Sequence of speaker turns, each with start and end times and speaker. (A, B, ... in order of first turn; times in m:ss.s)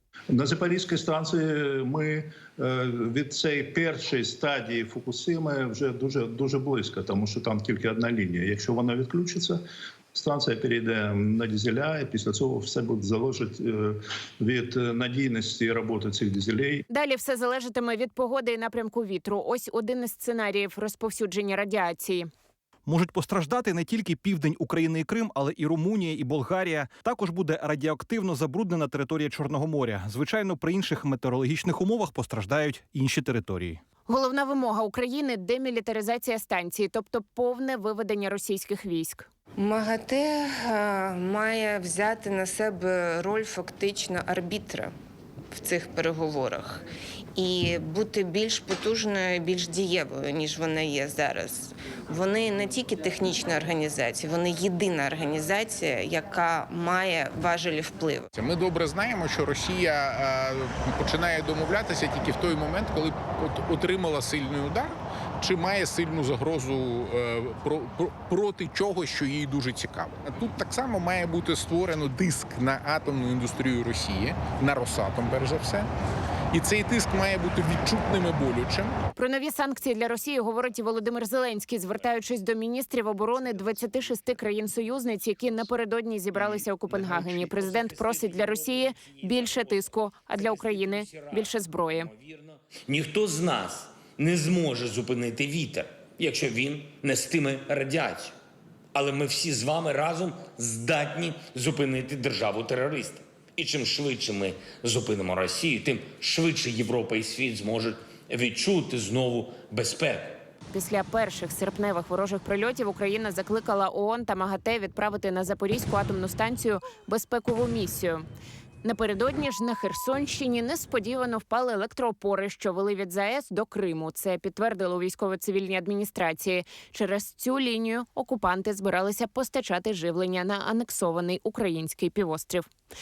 0:00.3-0:09.6 A
0:10.1-0:16.8 A
0:16.9-0:22.3 B
0:22.9-0:33.8 C
0:34.1-0:39.3 B
0:39.6-0:44.9 D
0:45.5-0:58.3 D
0:58.4-1:15.9 E
1:16.5-1:19.0 E
1:19.2-1:32.1 B
1:26.4-1:38.4 F
1:38.9-1:50.5 F
1:50.7-1:58.2 B
1:58.8-2:12.7 B